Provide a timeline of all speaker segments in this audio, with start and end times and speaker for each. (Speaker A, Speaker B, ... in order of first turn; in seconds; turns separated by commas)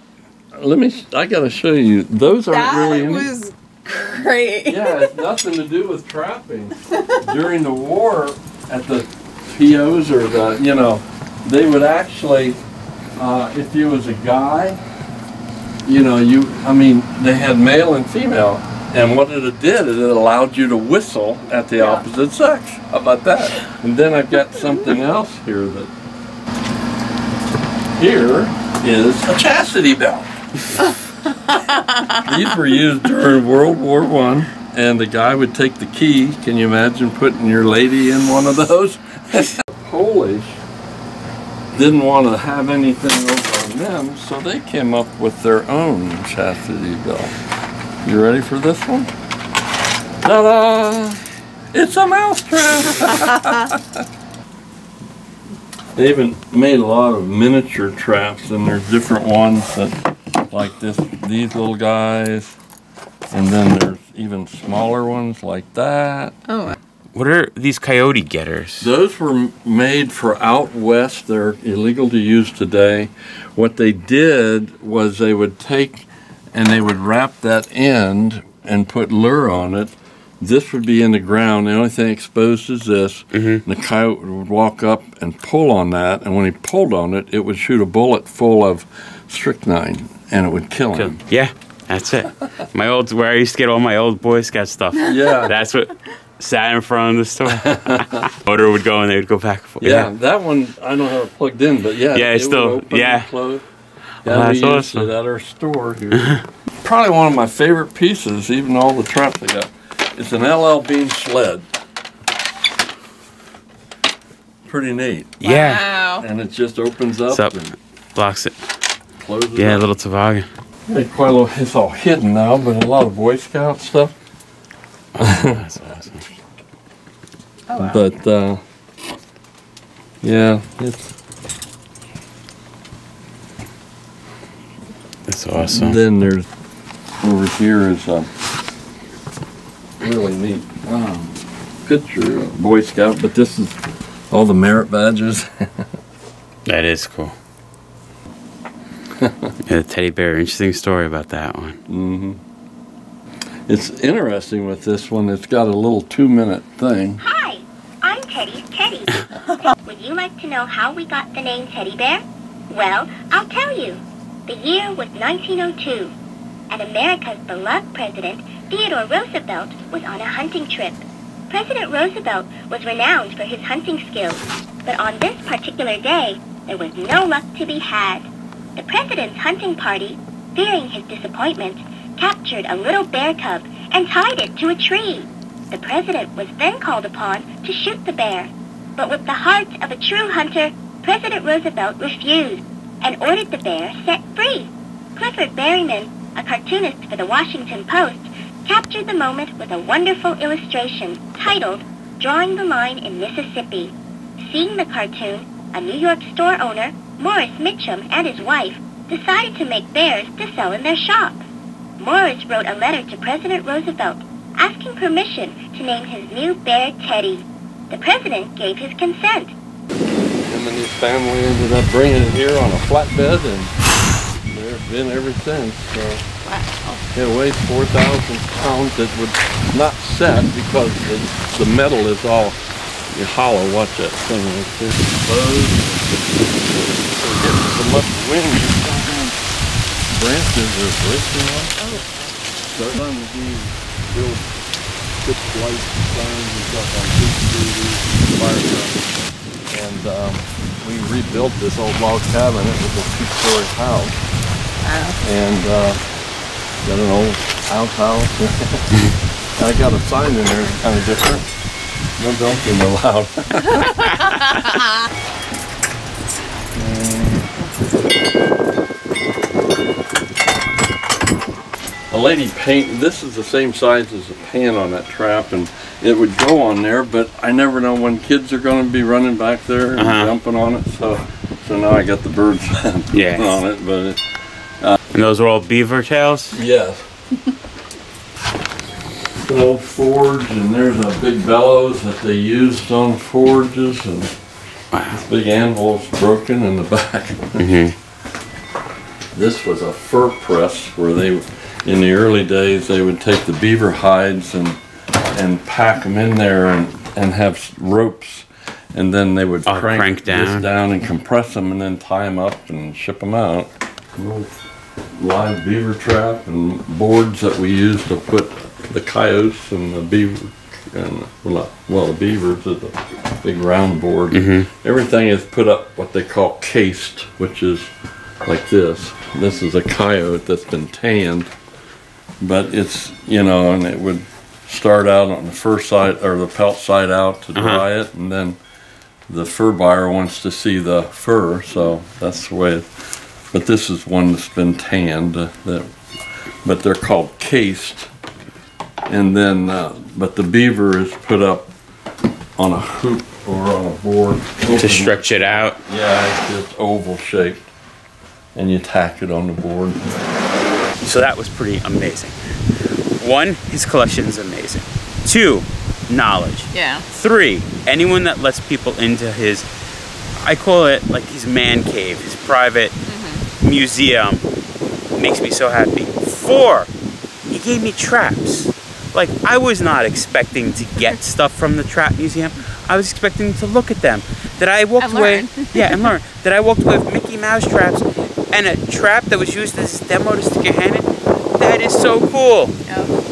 Speaker A: 0.5-3.3, Speaker B: 2.5-5.2, Speaker A: 4.6-12.6, Speaker A: 13.2-14.8, Speaker A: 15.8-25.9, Speaker A: 28.0-30.3, Speaker A: 32.1-40.6, Speaker A: 41.7-47.4, Speaker A: 48.0-49.1, Speaker A: 50.2-51.2, Speaker A: 51.7-54.0, Speaker A: 56.0-62.6, Speaker A: 63.3-66.3, Speaker B: 66.5-66.8, Speaker C: 67.1-68.9, Speaker A: 68.8-91.2, Speaker C: 83.3-83.6, Speaker C: 90.9-100.1, Speaker A: 95.0-95.5, Speaker A: 97.5-98.2, Speaker A: 99.8-103.6, Speaker C: 102.1-103.3, Speaker C: 104.2-105.1, Speaker A: 104.2-111.7, Speaker C: 106.2-106.4, Speaker A: 114.6-115.4, Speaker C: 115.4-115.9, Speaker B: 115.4-116.3, Speaker A: 116.2-117.7, Speaker C: 117.3-117.6, Speaker C: 118.1-118.6, Speaker A: 119.2-119.9, Speaker C: 119.5-120.5, Speaker A: 120.9-124.1, Speaker C: 125.1-126.2, Speaker A: 125.2-125.6, Speaker B: 127.7-128.0, Speaker A: 127.8-128.6, Speaker A: 130.2-131.1, Speaker C: 135.3-136.0, Speaker A: 135.6-136.5, Speaker A: 137.2-138.3, Speaker A: 140.0-145.9, Speaker C: 146.7-147.3, Speaker A: 149.2-149.5, Speaker C: 149.7-151.8, Speaker A: 151.9-152.4, Speaker A: 153.7-157.2, Speaker D: 157.2-166.1, Speaker D: 166.7-211.4, Speaker D: 212.0-219.5, Speaker A: 220.4-223.7, Speaker A: 224.4-226.2, Speaker B: 226.4-227.0, Speaker A: 227.1-232.6, Speaker A: 233.1-239.3, Speaker A: 240.1-241.8, Speaker B: 241.8-242.1, Speaker A: 242.7-244.4, Speaker A: 245.2-249.0, Speaker A: 249.7-254.2, Speaker B: 254.8-255.2, Speaker A: 255.2-256.0, Speaker A: 256.8-258.9, Speaker A: 259.6-261.5, Speaker A: 262.2-264.3, Speaker A: 266.7-267.5, Speaker A: 272.1-284.2, Speaker C: 280.0-280.3, Speaker C: 283.1-283.6, Speaker C: 285.1-286.6, Speaker A: 286.5-287.1, Speaker A: 289.4-294.3, Speaker C: 294.9-295.2, Speaker A: 295.1-297.7, Speaker C: 297.6-297.9, Speaker A: 299.3-304.8, Speaker A: 305.3-314.6, Speaker C: 309.6-310.7, Speaker A: 315.1-327.9, Speaker C: 324.3-324.7, Speaker A: 328.4-331.5, Speaker A: 332.4-338.6, Speaker C: 337.6-337.8, Speaker A: 339.3-345.9, Speaker A: 346.6-348.1, Speaker A: 349.1-351.7, Speaker A: 352.6-357.7, Speaker C: 354.7-355.8, Speaker A: 358.5-360.3, Speaker C: 361.0-362.4, Speaker C: 363.2-369.6, Speaker B: 366.7-367.0, Speaker C: 370.4-372.9, Speaker B: 373.1-373.4, Speaker C: 373.6-374.5, Speaker C: 375.1-376.9, Speaker C: 377.5-392.8, Speaker B: 385.0-386.0, Speaker B: 392.9-393.1